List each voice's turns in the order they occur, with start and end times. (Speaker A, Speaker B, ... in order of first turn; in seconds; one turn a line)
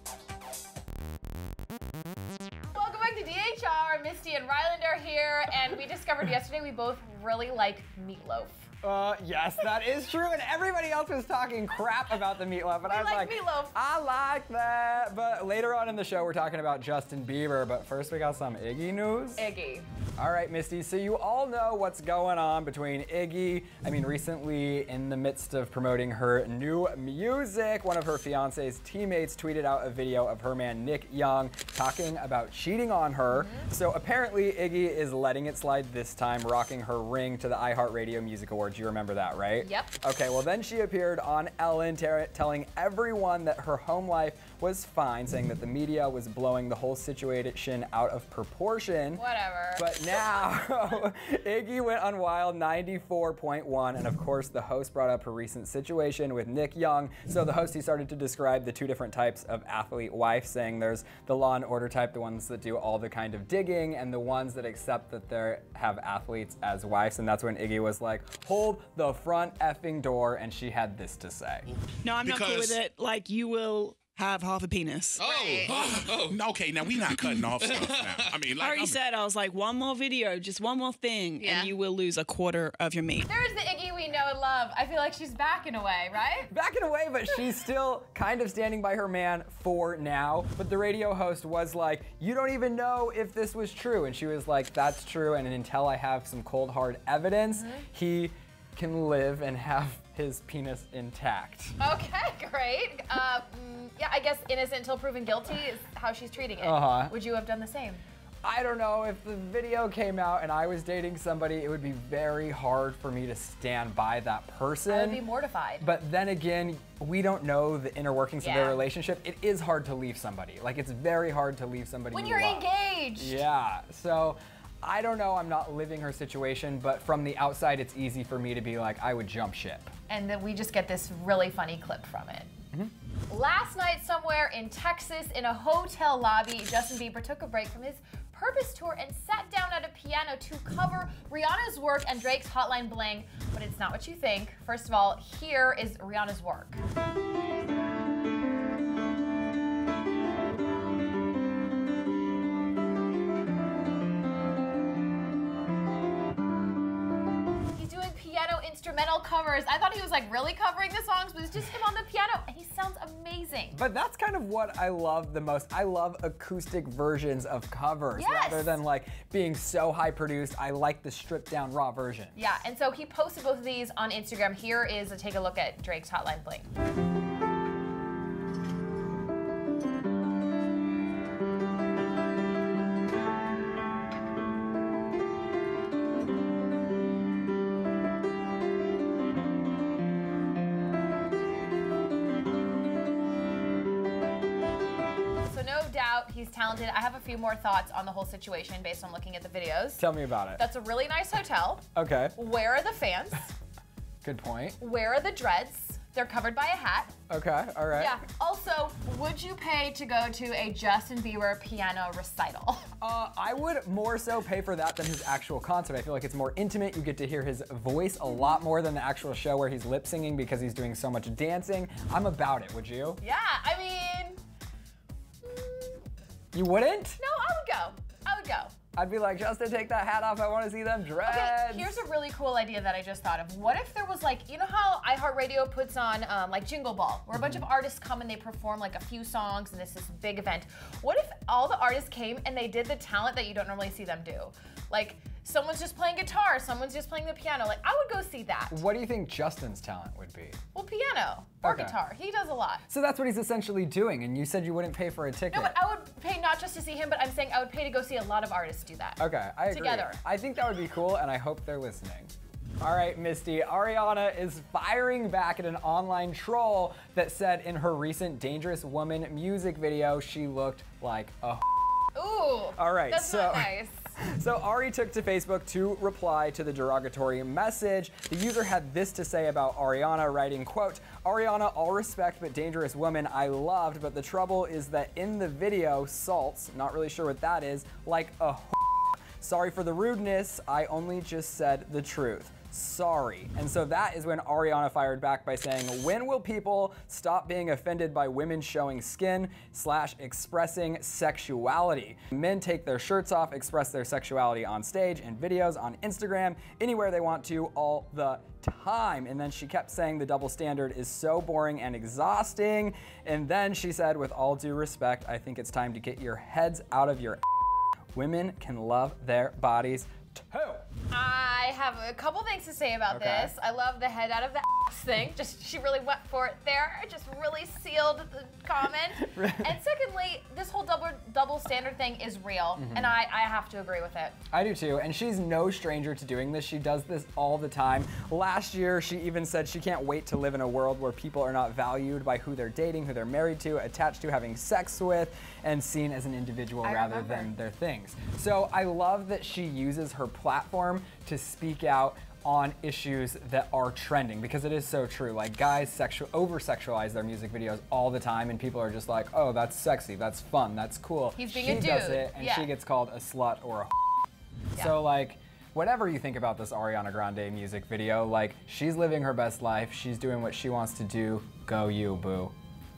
Speaker A: 2.7-8.7
Speaker B: 8.8-19.4
Speaker A: 12.8-13.7
Speaker A: 19.4-19.9
Speaker B: 20.2-71.7
Speaker A: 33.3-33.7
Speaker A: 39.6-39.9
Speaker A: 49.1-50.7
Speaker C: 72.0-76.3
Speaker D: 72.2-72.8
Speaker A: 75.2-75.8
Speaker D: 75.2-79.0
Speaker C: 77.2-83.3
Speaker A: 81.4-81.7
Speaker A: 83.3-86.5
Speaker B: 86.5-101.8
Speaker A: 97.5-97.8
Speaker A: 101.8-108.0
Speaker B: 106.6-107.1
Speaker B: 108.4-115.2
Speaker A: 114.9-115.8
Speaker B: 115.8-129.9
Speaker A: 118.4-118.8
Speaker A: 122.1-123.4
Speaker A: 130.1-132.5
Speaker A: 133.3-146.8
Speaker A: 157.7-163.8
Speaker B: 163.7-172.4
Speaker A: 168.1-168.8
Speaker A: 172.3-176.7
Speaker A: 195.4-200.0
Speaker B: 200.0-200.6
Speaker A: 200.5-203.5
Speaker B: 201.9-202.3
Speaker B: 204.2-204.8
Speaker A: 204.8-207.1
Speaker B: 207.3-208.2
Speaker A: 207.9-212.9
Speaker B: 213.0-223.2
Speaker A: 223.2-224.4
Speaker A: 225.4-226.0
Speaker B: 226.5-227.2
Speaker A: 227.2-228.7
Speaker B: 228.9-232.0
Speaker A: 231.2-248.8
Speaker B: 237.3-237.6
Speaker B: 248.7-250.6
Speaker A: 250.7-252.8
Speaker B: 251.6-252.0
Speaker B: 252.9-255.7
Speaker A: 255.5-260.2
Speaker B: 259.2-272.1
Speaker A: 272.1-274.0
Speaker B: 272.8-317.4
Speaker B: 318.1-320.9
Speaker A: 321.1-334.4
Speaker B: 323.1-323.5
Speaker B: 329.2-329.8
Speaker B: 332.8-333.1
Speaker B: 334.5-363.9
Speaker A: 346.8-347.5
Speaker A: 361.4-362.7
Speaker B: 364.7-372.5